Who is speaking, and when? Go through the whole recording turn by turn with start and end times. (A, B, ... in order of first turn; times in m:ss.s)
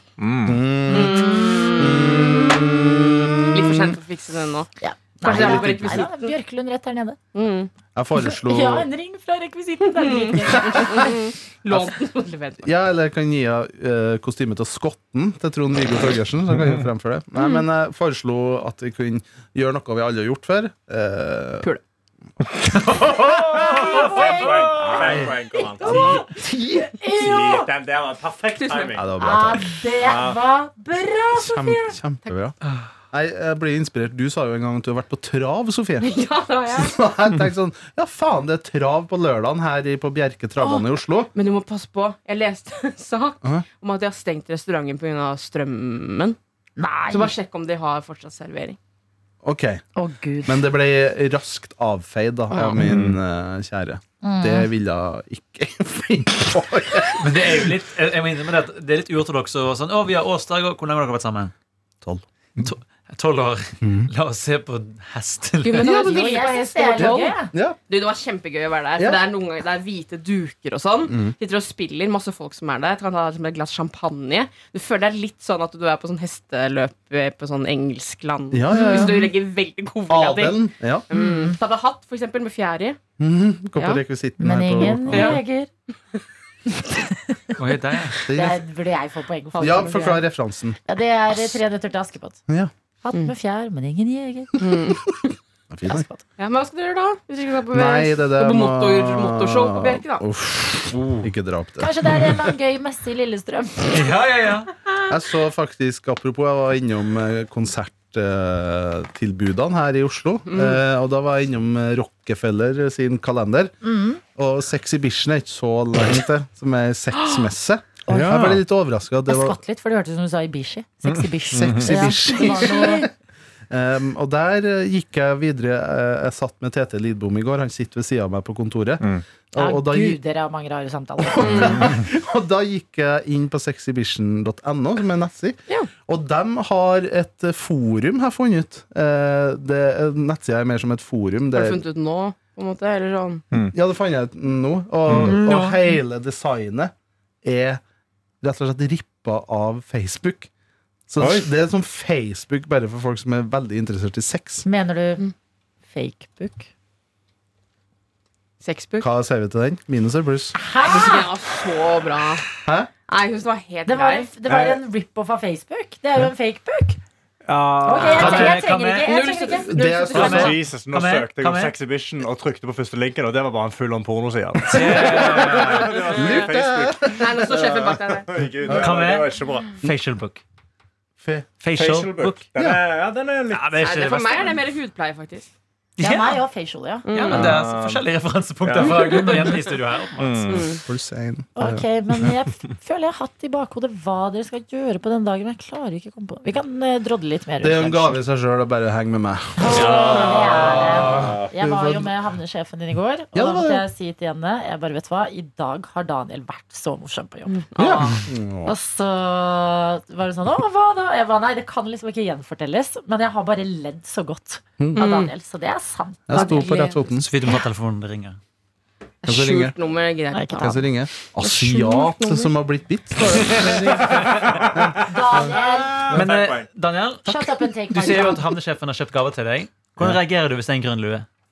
0:00.2-0:00.6 A
0:00.4-0:04.0 B
0:00.9-0:02.6 C
0:03.5-0:04.7 C
0:04.8-0:07.2 D
0:05.2-0:06.3 C
0:05.2-0:06.0 B
0:07.3-0:07.7 C
0:07.9-0:08.9 B
0:08.2-0:11.2 D
0:09.9-0:12.7 C
0:12.6-0:21.7 B
0:22.8-0:24.4 E
0:23.3-0:26.2 A
0:23.7-0:25.0 D
0:24.9-0:27.0 B
0:25.5-0:27.7 D
0:27.1-0:29.1 A
0:28.6-0:28.9 C
0:28.9-0:29.8 B
0:29.2-0:32.0 D
0:30.0-0:30.4 A
0:31.3-0:32.5 B
0:33.1-0:36.1 B
0:36.0-0:37.0 C
0:36.7-0:41.3 B
0:40.6-0:46.4 C
0:46.8-0:47.3 D
0:47.1-0:48.8 C
0:49.4-0:49.8 B
0:50.0-0:50.7 D
0:50.4-0:57.5 B
0:52.8-0:53.2 A
0:54.2-0:54.7 D
0:57.2-1:01.5 E
1:02.6-1:06.0 E
1:03.8-1:04.1 B
1:05.6-1:07.4 C
1:05.8-1:07.5 D
1:05.8-1:06.1 B
1:07.0-1:07.8 B
1:07.9-1:23.0 C
1:11.1-1:11.3 B
1:18.5-1:19.2 B
1:18.7-1:19.3 D
1:20.1-1:21.0 B
1:21.1-1:21.6 D
1:23.2-1:25.4 B
1:23.8-1:24.0 C
1:24.4-1:25.7 D
1:25.1-1:25.4 C
1:26.8-1:27.5 D
1:27.6-1:28.2 E
1:28.2-1:30.2 D
1:28.3-1:28.6 B
1:29.5-1:30.2 C
1:29.6-1:30.8 B
1:30.8-1:32.4 D
1:33.0-1:34.6 D
1:34.6-1:35.3 C
1:35.7-1:36.0 B
1:35.8-1:36.2 D
1:36.4-1:40.2 C
1:37.7-1:42.5 B
1:40.9-1:41.3 A
1:41.8-1:44.1 D
1:43.9-1:44.7 E
1:45.1-1:53.7 B
1:50.5-1:50.8 C
1:53.8-1:54.2 D
1:54.4-1:59.6 B
1:58.1-1:58.5 D
1:58.1-1:58.6 A
1:59.3-2:03.1 D
2:01.5-2:03.1 B
2:01.5-2:02.2 A
2:03.7-2:10.2 B
2:09.6-2:11.8 D
2:11.2-2:21.8 B
2:11.4-2:11.9 C
2:11.5-2:11.9 A
2:21.5-2:23.4 C
2:23.7-2:26.9 B
2:25.1-2:25.4 A
2:25.2-2:25.8 E
2:27.4-2:27.8 B
2:28.4-2:30.5 B
2:31.1-2:34.6 B
2:31.2-2:31.5 A
2:34.6-2:35.2 D
2:35.9-2:36.7 D
2:38.6-2:39.1 C
2:39.0-2:40.6 B
2:40.5-2:41.2 D
2:40.8-2:42.5 C
2:42.6-2:42.9 B
2:43.1-2:44.3 C
2:43.9-2:47.0 D
2:44.4-2:44.8 A
2:47.4-2:48.6 A
2:47.8-2:49.7 D
2:48.0-2:49.2 E
2:49.0-2:50.6 C
2:49.7-2:50.6 B
2:50.1-2:51.7 E
2:50.2-2:59.8 A
2:54.7-2:56.0 E
2:55.0-2:57.3 B
2:57.1-2:58.3 C
2:58.7-3:00.4 E
3:01.2-3:01.5 B
3:01.6-3:02.5 E
3:01.7-3:03.8 A
3:03.5-3:04.6 E
3:03.8-3:05.4 C
3:06.0-3:06.4 E
3:06.0-3:07.1 D
3:07.0-3:07.5 C
3:07.1-3:10.7 E
3:07.3-3:08.1 A
3:08.6-3:09.5 A
3:10.2-3:10.8 A
3:10.5-3:10.8 C
3:10.8-3:11.8 B
3:11.6-3:18.2 D
3:17.6-3:22.1 B
3:19.6-3:27.6 D
3:19.7-3:21.5 A
3:23.3-3:23.8 B
3:27.5-3:28.2 C
3:27.8-3:28.7 B
3:28.6-3:37.0 D
3:35.0-3:35.3 C
3:36.3-3:37.3 B
3:36.4-3:36.6 C
3:37.1-3:38.4 E
3:39.2-3:42.5 C
3:39.2-3:39.8 B
3:40.3-3:40.7 D
3:40.6-3:45.6 B
3:43.4-3:44.4 E
3:44.0-3:46.7 A
3:45.0-3:46.1 D
3:46.1-3:51.2 E
3:47.2-3:48.5 D